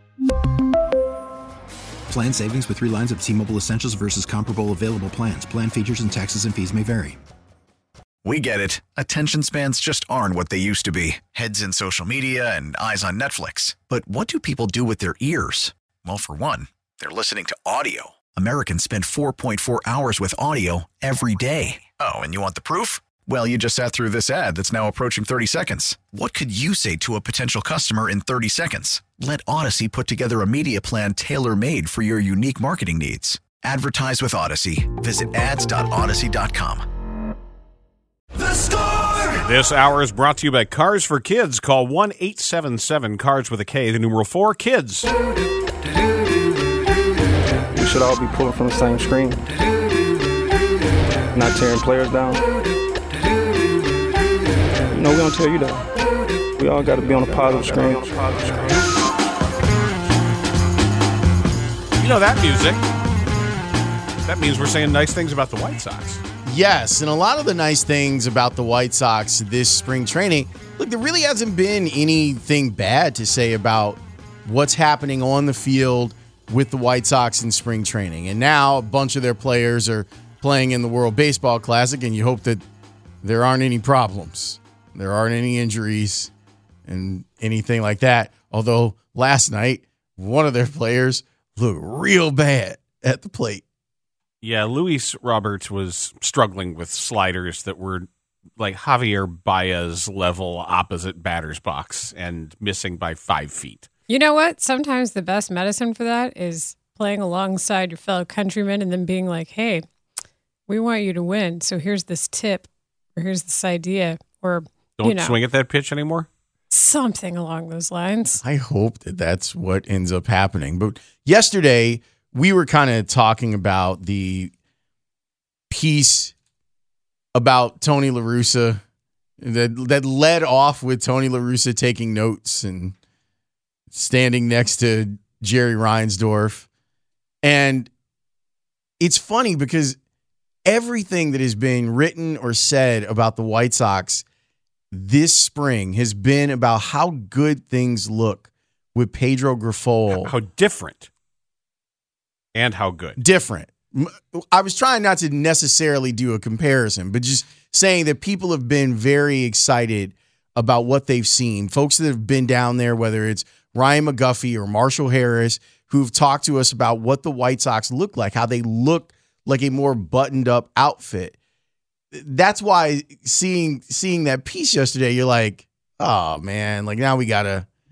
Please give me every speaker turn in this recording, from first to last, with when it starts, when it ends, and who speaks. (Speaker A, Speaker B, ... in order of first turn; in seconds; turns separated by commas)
Speaker A: 2.1-7.2, Speaker B: 8.2-36.9, Speaker C: 39.3-45.1, Speaker D: 47.7-49.4, Speaker D: 51.3-52.4, Speaker D: 54.9-55.8, Speaker D: 56.6-58.3, Speaker C: 62.0-62.8, Speaker C: 64.2-66.2, Speaker E: 66.5-82.6, Speaker E: 83.2-86.3, Speaker E: 86.9-93.6, Speaker C: 94.4-98.1, Speaker C: 98.6-103.9, Speaker F: 104.1-109.8, Speaker F: 110.7-115.4, Speaker C: 115.0-116.3, Speaker F: 116.7-118.4, Speaker E: 118.4-124.5, Speaker E: 125.7-126.3, Speaker E: 127.3-128.8, Speaker E: 129.4-133.0, Speaker E: 133.9-136.7, Speaker E: 137.4-137.9, Speaker E: 139.0-140.0, Speaker E: 140.7-144.2, Speaker E: 144.9-150.3, Speaker C: 150.1-151.1, Speaker C: 152.6-153.2, Speaker E: 153.2-171.4, Speaker E: 172.1-177.7